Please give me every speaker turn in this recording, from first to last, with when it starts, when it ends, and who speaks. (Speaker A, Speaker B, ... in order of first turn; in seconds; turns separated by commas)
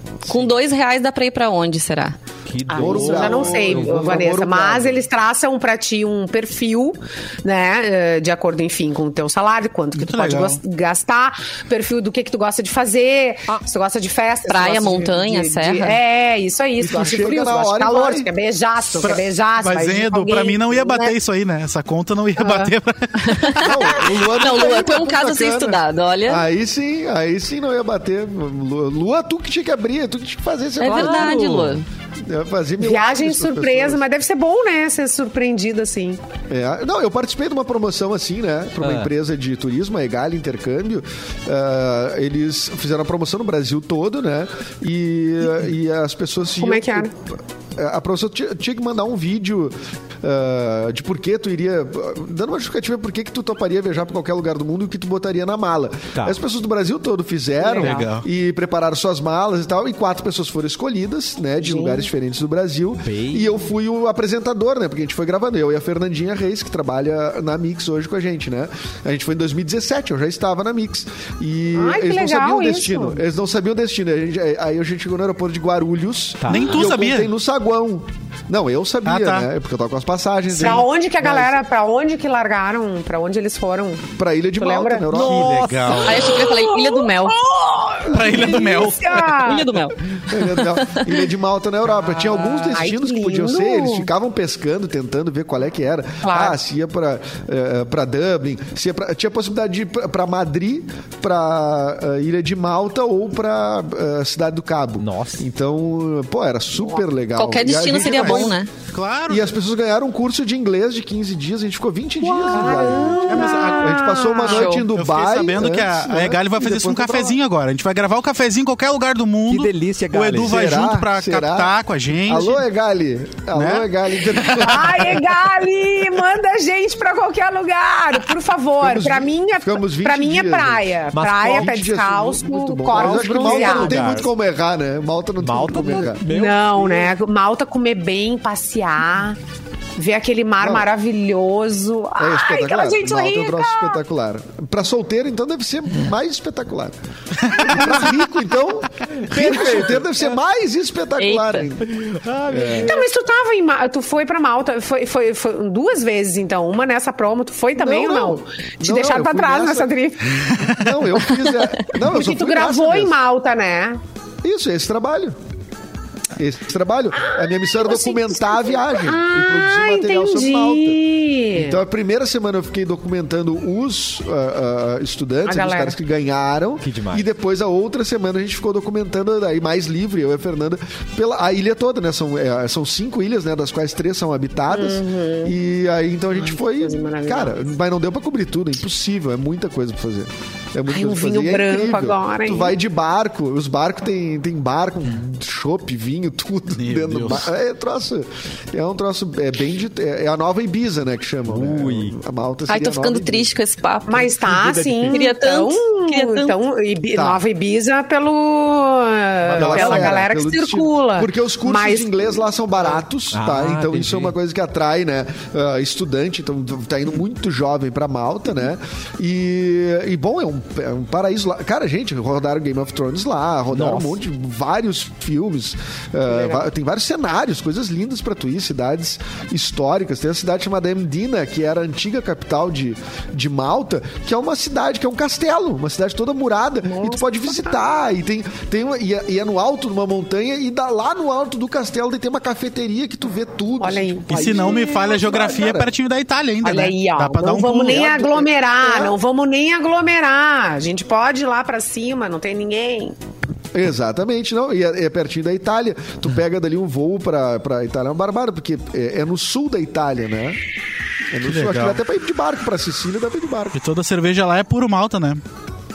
Speaker A: 0.3-2.2, Speaker B: 2.5-4.2, Speaker C: 2.7-21.1, Speaker D: 2.7-5.0, Speaker E: 9.9-10.6, Speaker A: 14.5-16.0, Speaker D: 16.8-18.3, Speaker E: 19.0-23.8, Speaker C: 22.4-22.7, Speaker A: 23.2-26.4, Speaker D: 23.6-34.0, Speaker A: 30.8-31.9, Speaker B: 30.8-31.8, Speaker C: 32.8-36.2, Speaker D: 36.5-81.5, Speaker B: 38.8-39.1, Speaker C: 46.6-47.1, Speaker C: 57.6-58.1, Speaker E: 57.8-58.3, Speaker C: 61.6-62.1, Speaker B: 63.0-63.5, Speaker C: 71.7-73.2, Speaker B: 76.4-76.8, Speaker E: 76.5-77.3, Speaker E: 79.0-79.5, Speaker E: 80.5-80.8, Speaker C: 80.6-84.1, Speaker D: 84.2-85.7, Speaker C: 84.6-85.1, Speaker B: 85.1-86.3, Speaker E: 85.1-86.3, Speaker A: 86.0-87.4, Speaker C: 86.1-89.7, Speaker E: 88.1-89.5, Speaker A: 89.3-91.2, Speaker D: 90.2-108.6, Speaker C: 92.7-94.1, Speaker C: 96.2-96.6, Speaker B: 105.0-105.4, Speaker A: 107.4-108.7, Speaker E: 107.8-109.5, Speaker D: 109.3-117.4, Speaker C: 112.2-114.8, Speaker E: 113.1-114.2, Speaker A: 114.5-114.9, Speaker E: 114.7-122.6, Speaker B: 119.5-120.6, Speaker D: 120.3-121.7, Speaker D: 122.3-125.2, Speaker E: 123.5-123.9, Speaker C: 124.4-134.1, Speaker D: 128.8-136.2, Speaker B: 131.1-131.7, Speaker B: 132.9-134.3, Speaker B: 135.4-137.1, Speaker C: 135.9-139.4, Speaker C: 140.0-144.0, Speaker D: 140.6-140.9, Speaker D: 142.2-153.0, Speaker E: 147.4-148.2, Speaker B: 149.2-150.1, Speaker A: 151.2-151.7, Speaker B: 151.8-153.1, Speaker C: 152.7-160.5, Speaker D: 157.8-163.2, Speaker E: 160.5-160.9, Speaker C: 161.9-164.0, Speaker D: 164.4-165.4, Speaker D: 166.3-171.0, Speaker C: 167.2-171.8, Speaker D: 171.5-203.5, Speaker C: 175.4-176.0, Speaker B: 176.8-177.2, Speaker C: 184.7-185.6, Speaker C: 186.4-187.6, Speaker C: 190.9-192.8, Speaker E: 196.8-197.5, Speaker B: 201.5-202.2, Speaker A: 202.7-204.3, Speaker C: 204.1-212.4, Speaker B: 204.5-205.1, Speaker D: 204.6-205.0, Speaker A: 205.1-206.6, Speaker D: 207.1-207.4, Speaker D: 209.4-245.9, Speaker A: 209.8-210.1, Speaker B: 209.8-210.2, Speaker B: 213.3-214.3, Speaker B: 223.7-224.2, Speaker C: 226.3-226.6, Speaker C: 236.8-237.8, Speaker C: 243.8-244.4, Speaker E: 244.3-248.3, Speaker C: 246.6-253.2, Speaker D: 248.3-249.2, Speaker D: 253.7-260.6, Speaker D: 261.3-263.8, Speaker E: 261.4-262.0, Speaker E: 263.7-265.4